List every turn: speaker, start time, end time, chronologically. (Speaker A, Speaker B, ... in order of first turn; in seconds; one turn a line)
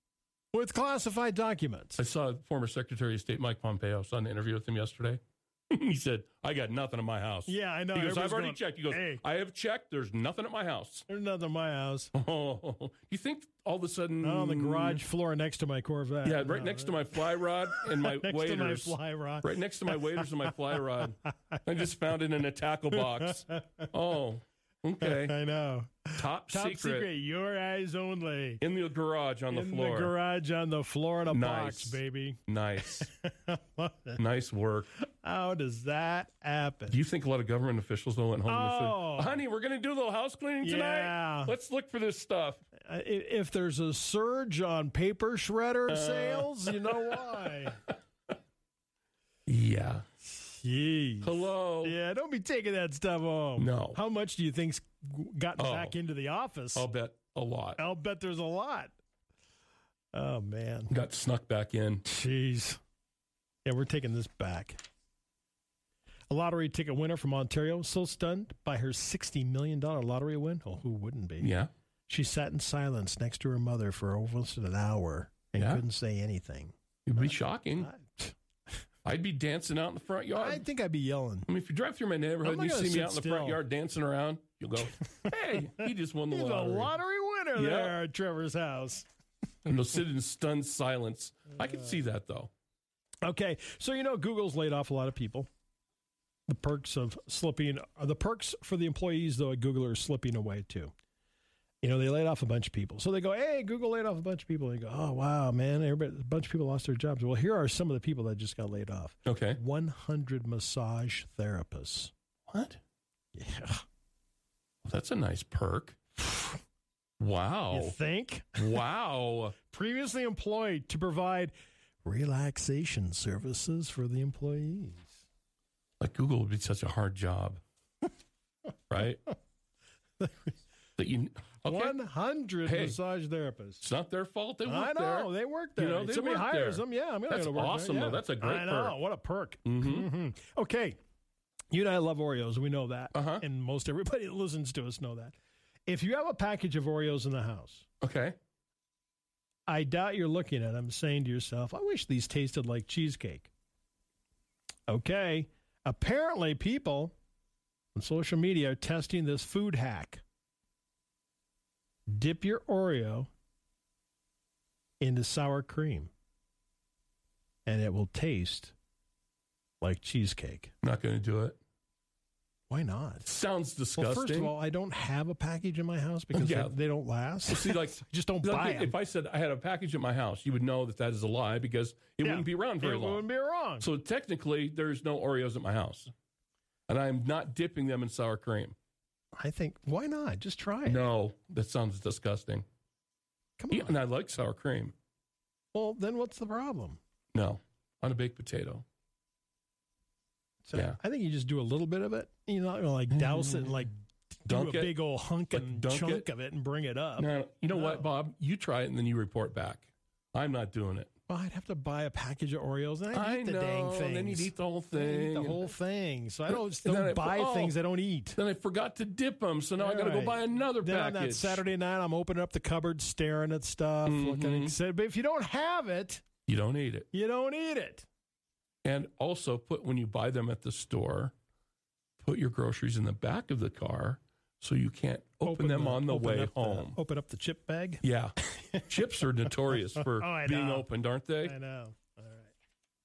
Speaker A: 0.5-2.0
Speaker B: 2.0-11.0
Speaker A: 7.5-9.2
Speaker A: 11.1-12.1
Speaker B: 12.1-15.0
Speaker A: 14.2-21.9
Speaker B: 16.2-25.4
Speaker A: 22.9-23.9
Speaker A: 25.0-28.6
Speaker B: 26.1-27.1
Speaker B: 28.6-30.1
Speaker A: 29.5-34.2
Speaker B: 31.3-33.1
Speaker B: 34.2-34.9
Speaker A: 35.0-37.0
Speaker B: 36.9-42.6
Speaker A: 38.5-39.4
Speaker A: 40.6-41.5
Speaker A: 42.8-47.8
Speaker B: 45.9-47.4
Speaker B: 49.5-50.0
Speaker A: 50.2-56.9
Speaker B: 51.2-51.9
Speaker B: 53.6-54.0
Speaker B: 55.6-55.9
Speaker B: 56.7-57.8
Speaker A: 57.8-58.9
Speaker A: 60.1-60.9
Speaker B: 60.9-62.0
Speaker A: 62.0-62.8
Speaker A: 63.6-64.8
Speaker A: 66.3-71.5
Speaker B: 71.4-71.7
Speaker A: 72.1-78.3
Speaker B: 75.6-75.8
Speaker B: 77.0-77.9
Speaker B: 79.0-80.6
Speaker A: 80.3-81.5
Speaker B: 81.5-86.9
Speaker A: 82.4-83.6
Speaker A: 85.0-89.1
Speaker B: 87.5-88.0
Speaker B: 89.7-92.5
Speaker A: 93.2-95.5
Speaker A: 96.5-100.9
Speaker A: 101.8-112.1
Speaker B: 109.2-109.6
Speaker B: 112.5-112.8
Speaker A: 113.3-113.8
Speaker B: 114.8-116.0
Speaker B: 117.2-118.0
Speaker A: 117.7-118.8
Speaker B: 118.6-119.5
Speaker A: 119.7-121.5
Speaker A: 122.0-125.2
Speaker B: 126.0-127.6
Speaker B: 128.9-129.2
Speaker A: 130.2-130.6
Speaker B: 131.0-132.0
Speaker A: 131.6-133.8
Speaker B: 132.6-133.0
Speaker B: 133.8-139.0
Speaker A: 134.6-141.0
Speaker B: 139.6-140.1
Speaker A: 141.7-147.8
Speaker B: 143.1-143.4
Speaker B: 148.0-148.3
Speaker A: 149.7-153.5
Speaker A: 154.9-157.1
Speaker A: 157.9-160.2
Speaker A: 162.1-163.3
Speaker A: 165.0-166.1
Speaker A: 167.7-168.7
Speaker A: 169.8-170.7
Speaker B: 170.8-171.6
Speaker A: 172.7-173.3
Speaker B: 173.2-174.5
Speaker A: 173.9-178.9
Speaker B: 176.3-176.7
Speaker B: 177.5-183.2
Speaker A: 182.2-183.8
Speaker B: 183.8-186.1
Speaker B: 186.9-188.7
Speaker A: 189.3-191.1
Speaker B: 190.8-192.6
Speaker A: 193.6-194.0
Speaker B: 193.7-194.9
Speaker A: 195.7-197.0
Speaker B: 197.3-198.8
Speaker A: 200.6-208.1
Speaker B: 203.1-203.9
Speaker B: 204.5-204.9
Speaker B: 205.5-206.2
Speaker B: 207.2-211.1
Speaker A: 211.3-218.4
Speaker B: 213.1-215.7
Speaker B: 216.5-217.7
Speaker B: 218.3-221.6
Speaker A: 219.8-226.2
Speaker B: 224.1-224.7
Speaker B: 226.5-227.1
Speaker A: 227.1-228.1
Speaker B: 228.8-231.3
Speaker B: 232.2-236.9
Speaker A: 235.4-238.9
Speaker B: 238.0-241.5
Speaker A: 239.9-240.9
Speaker A: 241.4-242.5